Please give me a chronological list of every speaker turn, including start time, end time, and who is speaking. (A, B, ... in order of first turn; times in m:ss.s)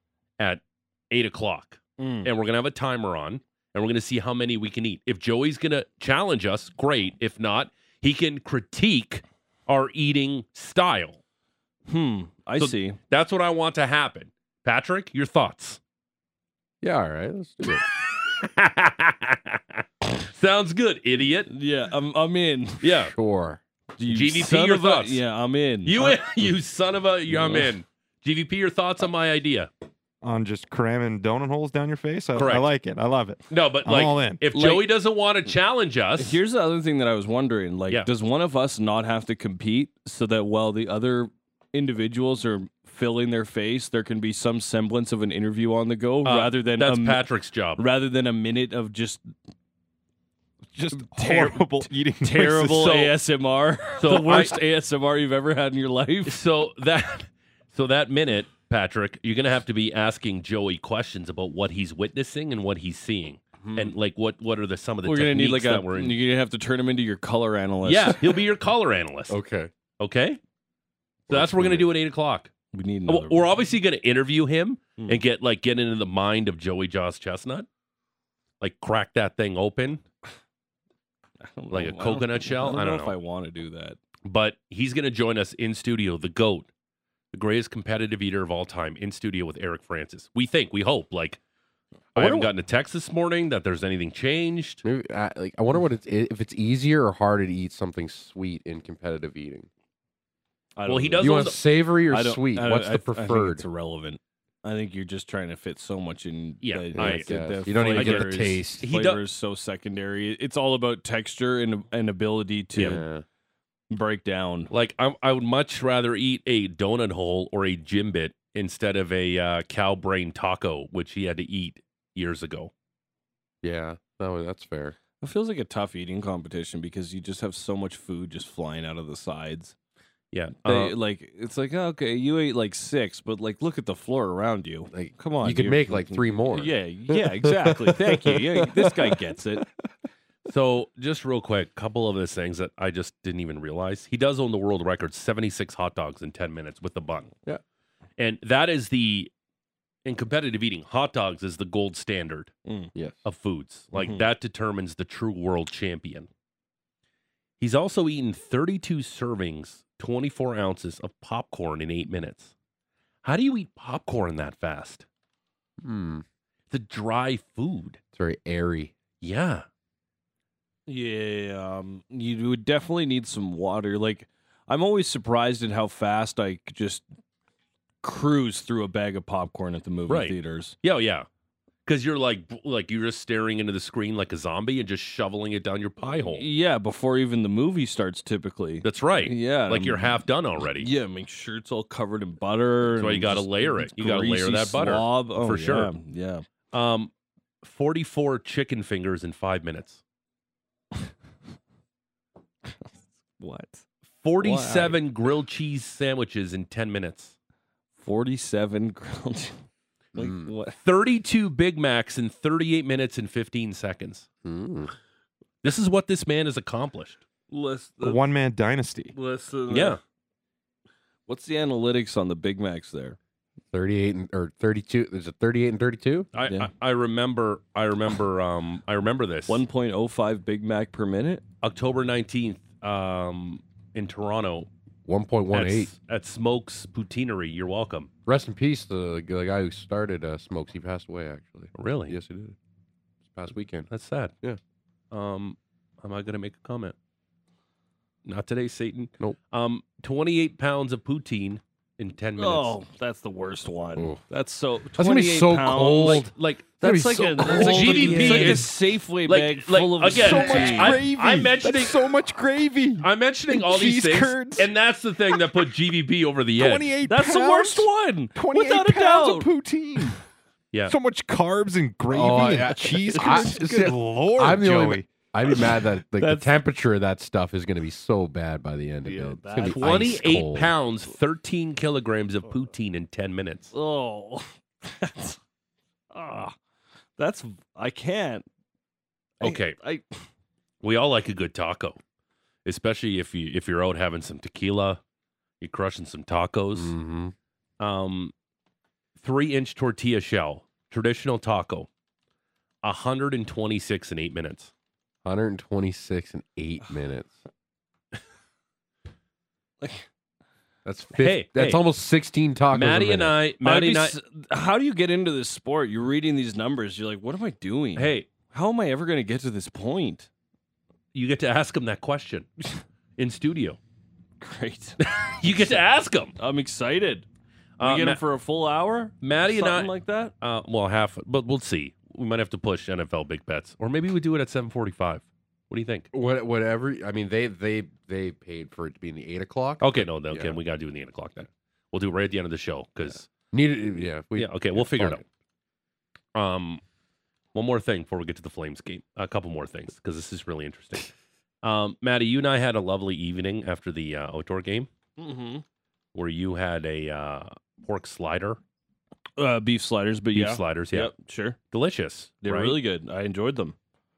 0:00.4-0:11.2 A
0:02.0-0:02.3 B
0:11.9-0:13.0 B
0:12.6-0:15.8 A
0:16.8-0:17.8 C
0:18.3-0:21.5 A
0:21.5-0:22.8 B
0:22.8-0:23.1 A
0:23.0-0:23.6 C
0:24.0-0:26.2 B
0:24.1-0:25.2 A
0:25.8-0:29.7 A
0:27.3-0:27.7 B
0:30.2-0:34.4 D
0:32.4-0:32.7 A
0:33.5-0:36.4 A
0:34.5-0:34.9 B
0:36.2-0:47.2 B
0:46.2-0:47.8 A
0:47.8-0:49.3 B
0:50.7-0:53.0 D
0:51.0-0:56.4 B
0:52.7-0:53.2 A
0:54.0-0:54.6 A
0:56.2-1:06.2 A
1:03.6-1:03.9 C
1:05.0-1:08.3 B
1:07.8-1:09.4 A
1:09.3-1:09.7 C
1:10.0-1:10.4 A
1:11.3-1:11.9 C
1:11.3-1:12.5 A
1:12.7-1:13.4 B
1:13.1-1:17.7 A
1:18.6-1:20.0 A
1:21.4-1:24.0 B
1:21.7-1:23.1 A
1:24.2-1:26.7 A
1:27.3-1:31.4 A
1:32.1-1:34.8 A
1:32.2-1:32.4 B
1:34.8-1:39.7 C
1:40.8-1:41.5 B
1:40.8-1:41.6 A
1:41.2-1:43.6 C
1:42.1-1:53.0 B
1:46.6-1:47.3 A
1:46.9-1:48.8 C
1:47.8-1:49.2 A
1:52.7-1:53.2 C
1:52.8-1:53.0 A
1:53.9-1:54.7 B
1:54.7-2:02.7 A
2:03.6-2:05.0 C
2:05.2-2:09.7 B
2:10.3-2:11.0 A
2:10.6-2:19.6 B
2:14.9-2:19.2 C
2:20.4-2:27.3 A
2:28.2-2:29.3 A
2:30.0-2:32.5 A
2:32.6-2:32.9 B
2:32.9-2:33.2 C
2:33.2-2:36.3 A
2:33.9-2:34.3 B
2:37.6-2:42.5 A
2:43.2-2:45.0 A
2:45.8-2:46.2 C
2:46.7-2:48.0 A
2:48.1-2:48.9 C
2:49.2-2:49.6 A
2:50.9-2:57.0 B
2:58.0-3:00.8 B
3:00.1-3:01.3 A
3:01.8-3:06.4 A
3:06.3-3:10.2 B
3:08.8-3:10.9 A
3:10.8-3:16.4 B
3:12.8-3:15.9 A
3:16.7-3:17.1 A
3:17.6-3:20.0 A
3:22.6-3:23.8 B
3:24.2-3:27.3 A
3:24.4-3:25.0 B
3:28.0-3:29.6 B
3:30.1-3:30.8 B
3:30.2-3:30.5 C
3:30.8-3:34.2 A
3:34.4-3:34.9 C
3:35.6-3:37.2 A
3:37.5-3:38.2 B
3:38.0-3:39.1 D
3:39.1-3:40.0 B
3:39.7-3:40.0 A
3:41.3-3:43.2 B
3:43.7-3:46.3 C
3:46.3-3:49.6 A
3:46.4-3:46.7 B
3:49.5-3:51.4 B
3:51.6-3:54.7 A
3:55.0-3:55.9 C
3:55.5-3:58.1 A
3:58.2-4:02.6 C
4:01.7-4:02.2 A
4:03.3-4:03.9 C
4:03.9-4:04.3 A
4:05.1-4:06.9 A
4:08.2-4:12.8 A
4:12.4-4:16.3 B
4:15.0-4:18.7 C
4:16.1-4:16.7 A
4:16.8-4:21.0 B
4:17.4-4:22.1 A
4:20.1-4:24.7 D
4:23.0-4:26.9 A
4:26.6-4:30.2 D
4:27.0-4:29.5 B
4:30.9-4:35.1 D
4:32.1-4:40.7 C
4:33.1-4:33.6 B
4:36.2-4:36.6 B
4:39.0-4:40.0 B
4:39.7-4:43.7 A
4:43.7-4:45.4 B
4:46.1-4:46.5 B
4:47.2-4:48.4 B
4:49.4-4:49.8 A
4:49.4-4:50.0 B
4:50.8-4:52.0 A
4:52.6-4:55.0 A
4:55.6-4:56.9 A
4:56.7-4:57.3 C
4:57.8-4:58.3 A
4:59.2-5:01.9 A
5:02.8-5:04.7 A
5:05.2-5:07.3 C
5:09.8-5:10.1 B
5:10.8-5:13.3 C
5:11.2-5:11.8 A
5:12.7-5:14.2 A
5:13.6-5:20.3 B
5:18.0-5:18.3 A
5:21.1-5:22.5 A
5:23.2-5:23.8 A
5:24.4-5:25.8 B
5:25.0-5:26.3 A
5:26.4-5:27.2 B
5:27.8-5:28.2 A
5:27.8-5:30.3 B
5:29.2-5:36.1 A
5:36.1-5:40.6 C
5:39.8-5:43.3 A
5:43.5-5:45.2 C
5:44.4-5:45.2 A
5:46.3-5:46.8 A
5:47.5-5:51.1 A
5:51.6-5:54.9 A
5:55.2-5:55.6 B
5:56.1-5:58.6 A
5:59.4-6:01.6 B
6:00.3-6:01.1 A
6:01.7-6:02.8 A
6:02.4-6:03.8 B